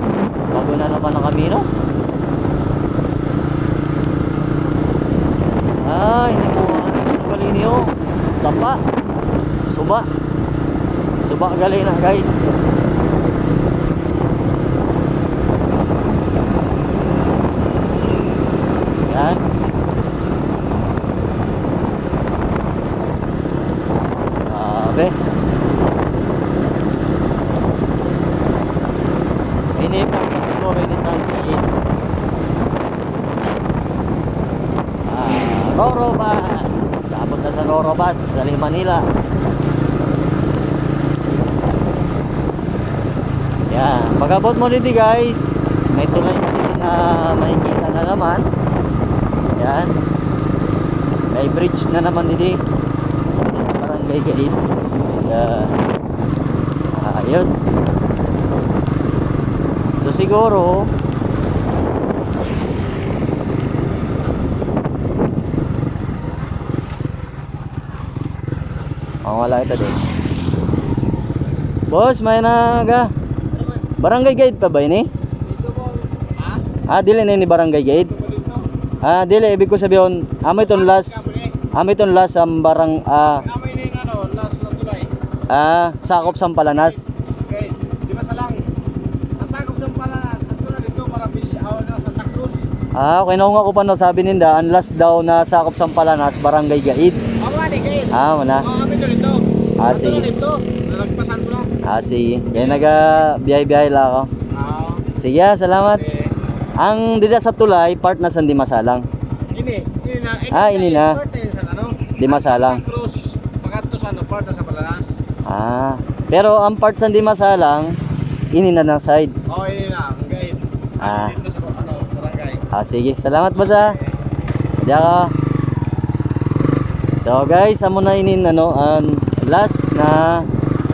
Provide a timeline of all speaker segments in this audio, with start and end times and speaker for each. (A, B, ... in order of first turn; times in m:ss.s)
0:00.5-0:01.7 A
0:05.8-0:08.8 A
0:09.7-0:10.1 A
0:11.2-0:12.4 A
0:19.1-0:19.4 A
0:24.5-0:25.2 A
0:29.8-0:31.7 A
0:35.1-0:39.0 A
0:43.7-0:48.4 A
0:49.6-0:49.9 A
0:51.3-0:52.6 A
0:53.4-0:54.6 A
0:55.2-0:55.8 A
0:56.9-0:57.6 A
1:00.0-1:00.9 A
1:09.2-1:10.0 A
1:11.9-1:13.1 A
1:14.0-1:15.1 A
1:15.5-1:16.6 B
1:16.9-1:18.2 A
1:18.1-1:18.7 B
1:19.0-1:23.4 A
1:20.6-1:21.6 B
1:23.2-1:25.1 B
1:25.5-1:27.1 A
1:26.3-1:26.9 B
1:27.5-1:28.6 B
1:29.4-1:32.6 B
1:33.0-1:37.2 A
1:37.4-1:41.7 B
1:38.1-1:38.7 A
1:39.8-1:40.3 A
1:41.8-1:44.3 A
1:44.5-1:45.1 B
1:45.2-1:46.0 A
1:46.0-1:46.3 B
1:46.8-1:49.0 A
1:49.5-1:55.2 B
1:50.5-1:51.2 A
1:52.2-1:52.8 A
1:55.4-1:57.9 A
1:58.5-1:59.3 A
1:59.5-2:02.6 B
2:01.0-2:01.4 A
2:02.7-2:04.0 A
2:03.7-2:04.0 B
2:04.8-2:05.3 A
2:07.2-2:10.4 A